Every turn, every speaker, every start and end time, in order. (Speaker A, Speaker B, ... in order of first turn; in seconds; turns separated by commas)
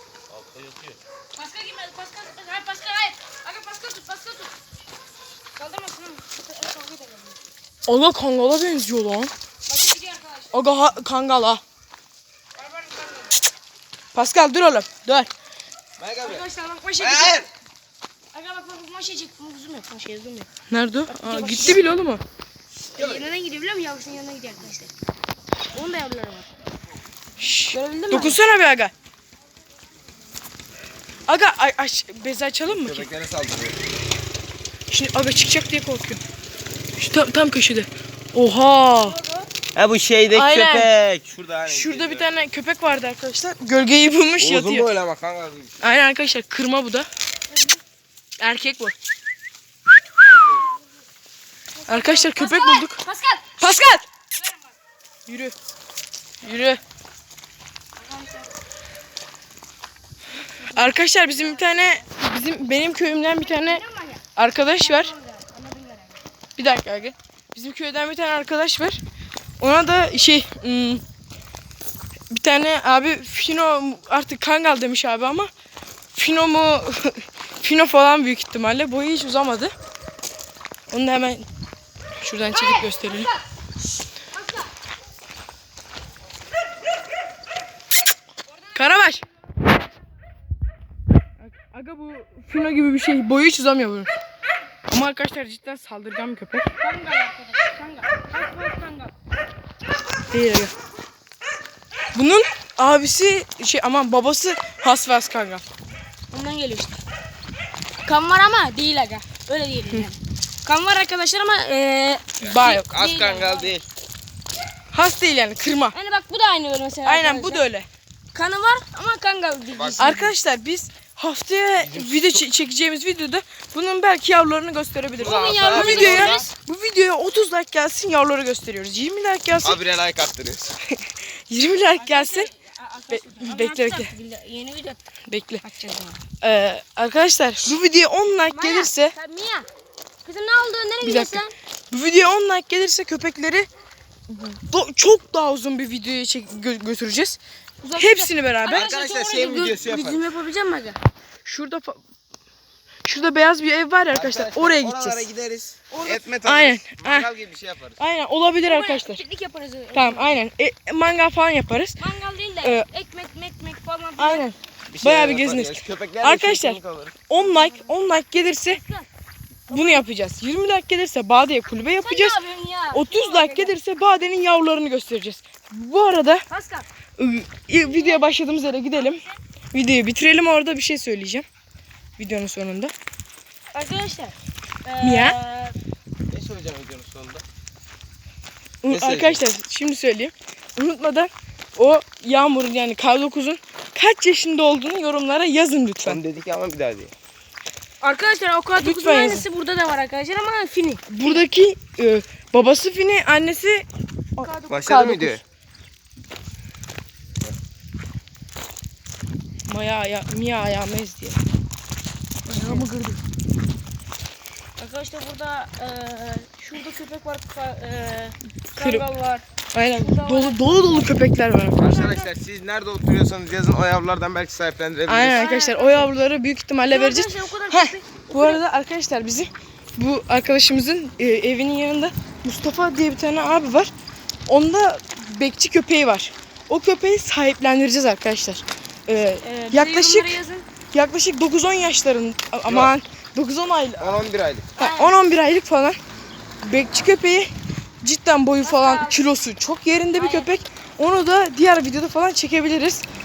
Speaker A: 0.3-1.0, Speaker B: 1.4-4.5, Speaker B: 5.5-7.5, Speaker C: 7.9-9.3, Speaker B: 9.7-10.6, Speaker C: 10.5-11.6, Speaker B: 12.6-13.4, Speaker C: 14.1-15.3, Speaker A: 16.0-17.5, Speaker B: 16.2-17.4, Speaker B: 18.3-20.5, Speaker C: 20.7-22.2, Speaker B: 21.1-21.9, Speaker B: 22.9-24.9, Speaker A: 22.9-23.2, Speaker B: 25.7-26.5, Speaker C: 27.4-28.9, Speaker B: 27.7-28.4, Speaker C: 31.3-33.0, Speaker A: 32.6-33.8, Speaker C: 34.9-36.2, Speaker C: 37.0-39.2, Speaker B: 39.0-39.5, Speaker A: 39.8-42.3, Speaker C: 40.3-40.9, Speaker C: 41.6-44.9, Speaker A: 44.4-45.8, Speaker C: 45.8-47.1, Speaker B: 47.5-47.8, Speaker C: 48.4-48.9, Speaker A: 50.3-50.6, Speaker B: 51.8-53.7, Speaker C: 51.9-53.0, Speaker C: 53.6-54.0, Speaker B: 54.3-54.8, Speaker C: 55.3-55.5, Speaker C: 56.4-56.8, Speaker B: 58.0-58.5, Speaker C: 60.6-63.8, Speaker B: 63.2-66.2, Speaker C: 64.4-65.1, Speaker C: 66.6-69.0, Speaker C: 69.6-71.0, Speaker C: 72.3-75.5, Speaker C: 76.1-79.7, Speaker C: 80.9-81.4, Speaker C: 82.2-83.3, Speaker B: 82.5-83.4, Speaker B: 84.3-84.7, Speaker B: 88.5-89.2, Speaker C: 88.8-89.2, Speaker C: 91.4-94.1, Speaker C: 94.9-96.7, Speaker B: 96.8-99.1, Speaker C: 100.3-100.7, Speaker C: 102.1-105.6, Speaker B: 106.3-107.0, Speaker B: 108.0-113.8, Speaker A: 112.4-113.9, Speaker C: 112.4-112.9, Speaker C: 114.9-115.9, Speaker B: 115.9-117.7, Speaker C: 117.0-117.9, Speaker B: 118.3-120.3, Speaker A: 119.7-120.0, Speaker C: 120.0-129.8, Speaker A: 121.8-122.5, Speaker A: 125.2-126.5, Speaker B: 125.2-126.5, Speaker A: 129.6-130.7, Speaker C: 130.9-132.5, Speaker B: 131.9-135.0, Speaker C: 133.1-134.1, Speaker C: 135.3-135.6, Speaker B: 135.6-136.2, Speaker C: 136.4-139.1, Speaker B: 138.5-139.7, Speaker B: 140.2-141.5, Speaker C: 141.0-143.7, Speaker C: 144.3-147.4, Speaker B: 147.8-151.0, Speaker C: 148.0-148.9, Speaker A: 148.7-150.2, Speaker C: 151.4-152.0, Speaker C: 153.0-155.3, Speaker A: 154.1-158.0, Speaker B: 155.9-156.3, Speaker C: 156.4-157.3, Speaker C: 158.0-159.2, Speaker B: 158.6-160.4, Speaker C: 159.9-162.0, Speaker B: 162.0-164.5, Speaker C: 164.2-166.8, Speaker A: 164.9-167.2, Speaker C: 167.3-168.8, Speaker B: 167.3-167.9, Speaker B: 168.7-169.1, Speaker C: 169.7-172.4, Speaker B: 169.7-170.0, Speaker B: 172.0-173.7, Speaker C: 172.9-176.4, Speaker B: 176.5-176.9, Speaker C: 177.2-179.2, Speaker B: 177.8-178.3, Speaker B: 178.9-179.4, Speaker C: 179.7-181.4, Speaker C: 182.2-182.9, Speaker B: 183.7-185.8, Speaker C: 185.0-185.4, Speaker A: 186.3-187.4, Speaker C: 188.8-196.2, Speaker A: 188.9-189.4, Speaker A: 196.0-197.1, Speaker B: 198.0-201.4, Speaker C: 198.8-199.5, Speaker C: 201.1-203.9, Speaker B: 204.4-204.8, Speaker C: 204.4-205.4, Speaker A: 204.7-205.4, Speaker C: 209.7-211.4, Speaker C: 212.5-213.2, Speaker B: 212.5-212.9, Speaker B: 214.8-221.2, Speaker C: 218.8-219.1, Speaker C: 219.7-221.8, Speaker A: 221.8-225.5, Speaker B: 221.8-222.3, Speaker C: 225.1-233.9, Speaker B: 225.2-226.1, Speaker B: 226.8-228.6, Speaker C: 234.5-240.3, Speaker B: 239.4-240.7, Speaker C: 240.9-244.2, Speaker A: 242.7-242.9, Speaker A: 244.0-244.7, Speaker B: 244.8-245.2, Speaker C: 244.8-246.0, Speaker C: 246.6-247.5, Speaker C: 248.0-253.0, Speaker B: 248.6-249.2, Speaker B: 250.1-250.5